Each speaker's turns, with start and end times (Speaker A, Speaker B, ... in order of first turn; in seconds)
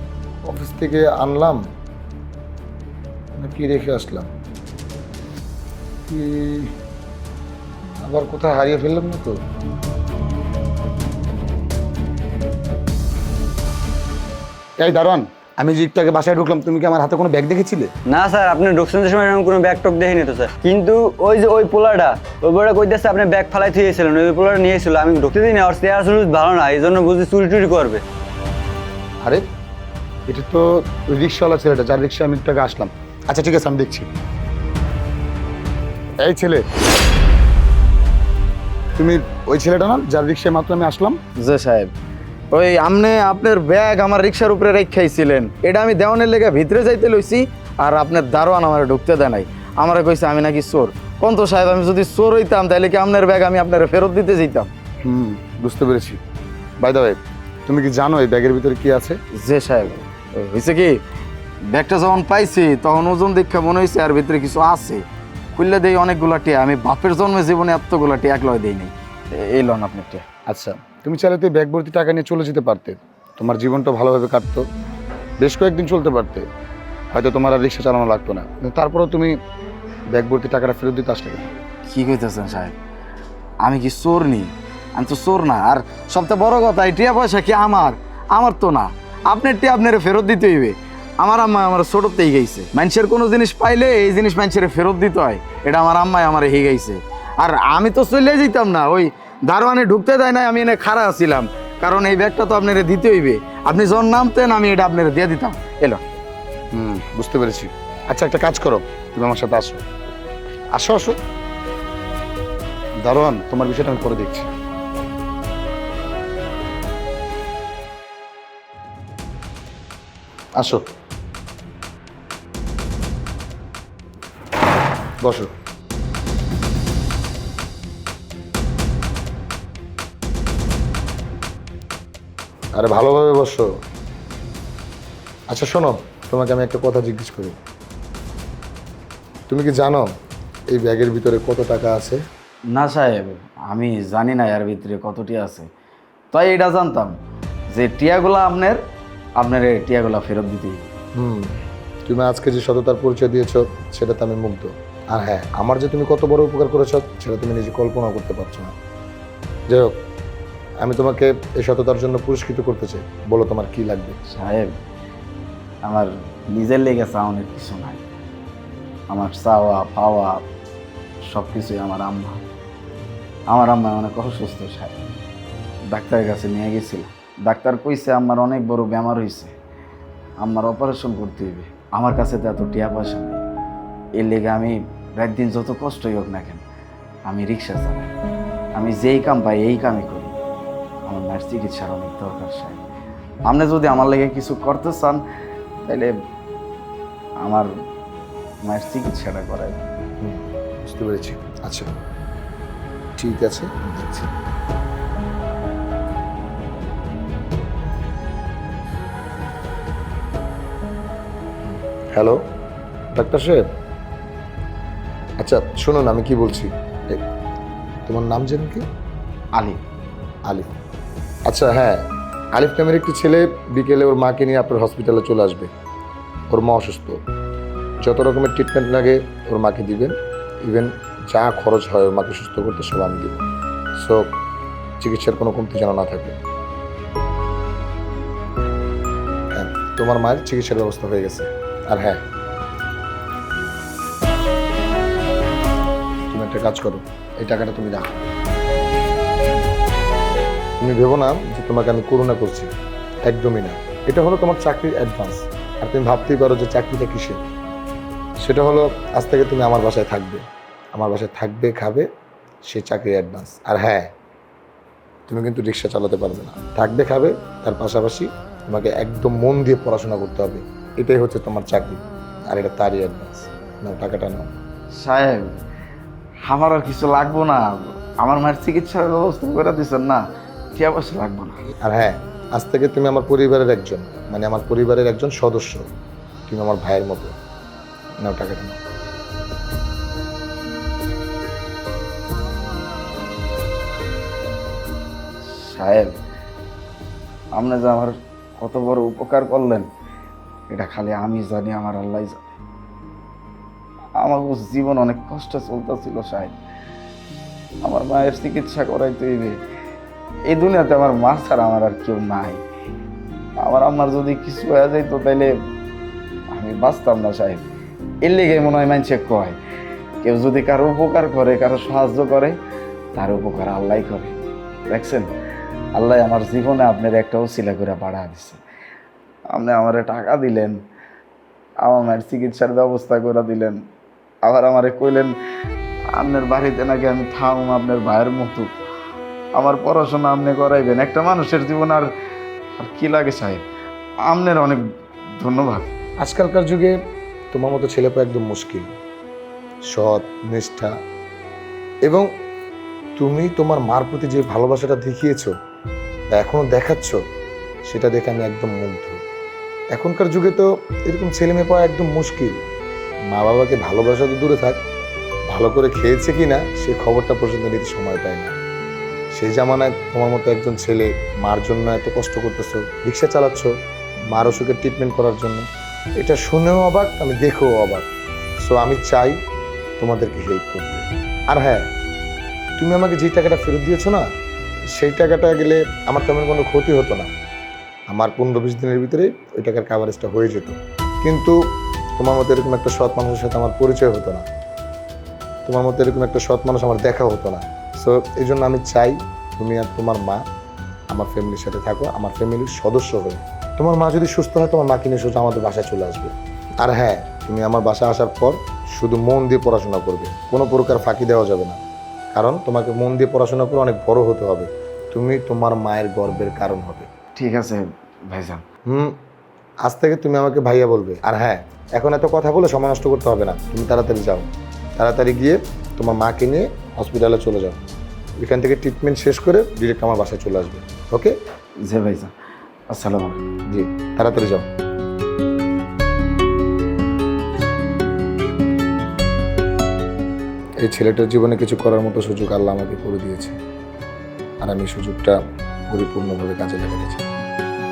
Speaker A: 0.4-1.6, 3.4-4.3, 6.1-6.7, 8.0-9.4, 14.8-17.9, 30.3-34.1, 36.2-36.6, 39.0-41.2, 55.0-56.2, 56.8-59.2, 70.5-74.6, 75.4-76.5, 77.1-79.3, 80.1-81.5, 106.7-109.8, 110.7-111.2, 113.0-114.5, 120.6-120.8, 125.2-125.5, 132.7-133.7, 135.5-137.6, 139.5-140.1, 140.7-142.2, 151.2-158.7, 160.8-164.2, 200.2-201.9, 203.2-203.9, 211.7-212.4, 213.1-213.6, 215.4-217.2, 218.1-218.8, 221.5-225.7, 226.5-227.2, 228.0-233.4, 234.0-234.3, 235.0-236.3, 239.5-242.2, 246.3-248.1, 250.8-252.7, 253.2-257.4, 258.4-260.4, 260.9-262.1, 262.7-264.1, 265.3-274.4, 281.8-285.8, 286.5-287.3, 288.2-288.8, 346.2-346.9, 347.5-348.9, 349.9-350.9, 353.2-355.5, 356.3-357.2, 357.9-359.2, 359.9-362.6, 363.3-364.8, 365.5-368.5, 369.3-373.7, 374.3-375.6, 376.2-378.1, 378.6-379.4, 380.0-381.8, 382.8-384.2, 384.9-387.3, 388.1-391.6, 392.2-394.4, 395.6-400.4, 401.1-411.8, 412.3-417.1, 418.9-419.1, 419.8-427.8, 428.4-431.3, 433.7-434.6, 440.8-443.6, 444.6-445.4, 445.9-447.2
Speaker B: 18.1-28.0
Speaker C: 41.4-41.9, 42.5-54.7, 59.3-61.0, 61.7-65.0, 65.5-70.2, 81.8-82.8, 83.6-106.0, 142.7-145.7, 146.3-147.1, 147.7-148.8, 149.4-150.9, 164.3-164.7, 165.8-168.0, 169.1-170.4, 171.3-172.4, 173.5-175.0, 175.9-179.5, 180.4-183.4, 184.2-186.6, 187.2-188.1, 188.8-190.3, 191.0-192.8, 193.5-195.2, 195.8-196.1, 197.4-197.7, 198.6-199.8, 204.0-204.3, 219.5-219.8, 274.9-275.5, 276.4-281.6, 295.4-296.2, 297.5-299.9, 300.7-302.4, 304.1-306.5, 307.8-309.6, 310.4-312.6, 313.6-315.5, 316.5-317.6, 318.2-319.6, 320.2-322.6, 323.1-324.3, 324.9-325.3, 325.9-328.6, 329.5-330.8, 331.8-333.8, 334.4-335.4, 336.1-338.7, 339.5-342.1, 342.8-343.6, 344.2-344.8, 345.4-345.9, 417.3-418.6, 431.8-432.3, 432.9-433.4